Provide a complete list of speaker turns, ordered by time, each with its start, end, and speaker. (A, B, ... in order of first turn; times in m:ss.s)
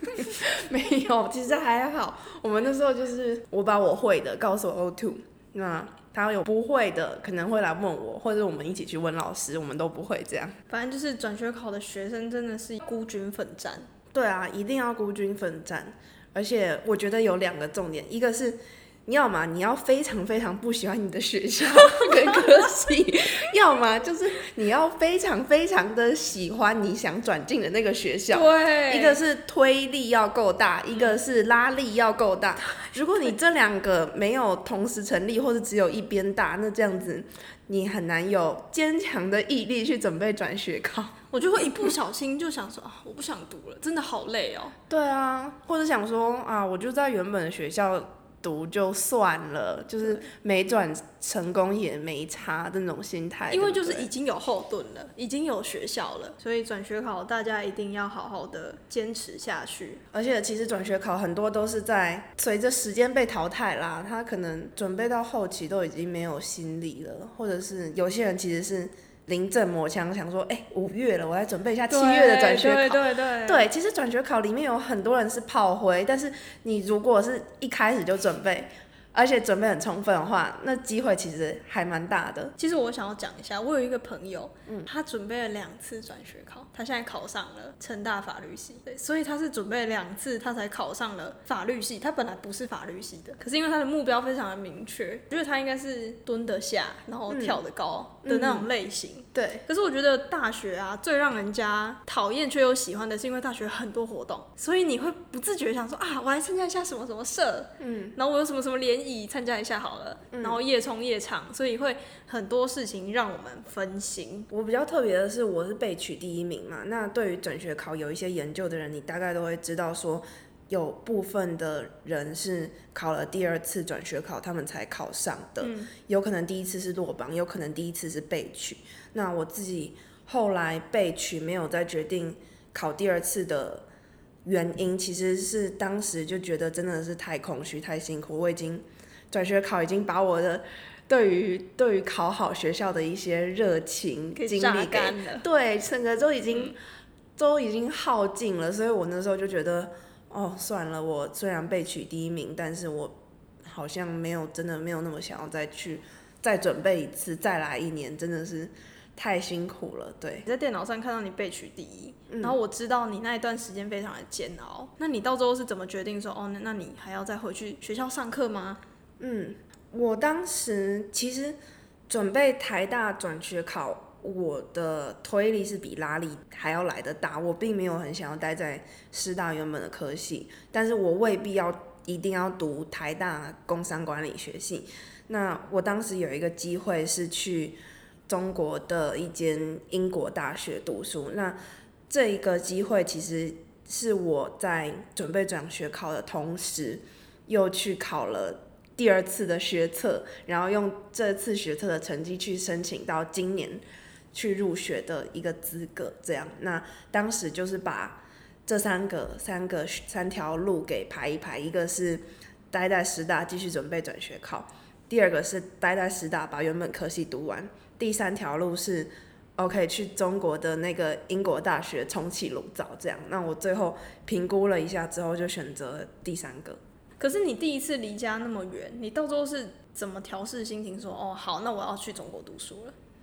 0:00.2-0:10.6 A
0:10.7-0:13.9 B
0:14.1-0:41.2 A
0:28.3-0:29.2 B
0:41.3-0:44.8 B
0:44.9-0:54.1 A
0:53.5-1:00.0 B
1:00.1-1:22.5 A
1:11.9-1:13.7 B
1:22.6-1:54.5 B
1:37.3-1:37.6 A
1:38.2-1:38.7 A
1:39.4-1:39.6 A
1:47.8-1:48.2 A
1:50.3-1:50.6 A
1:54.5-2:13.9 A
2:05.6-2:05.9 B
2:14.4-2:26.8 A
2:24.4-2:25.4 B
2:27.4-2:33.2 A
2:33.7-2:40.5 A
2:40.4-2:48.8 B
2:42.3-2:42.6 A
2:49.2-2:51.6 A
2:52.1-3:11.6 A
3:12.1-3:23.8 A
3:24.3-3:46.8 A
3:47.2-3:52.9 B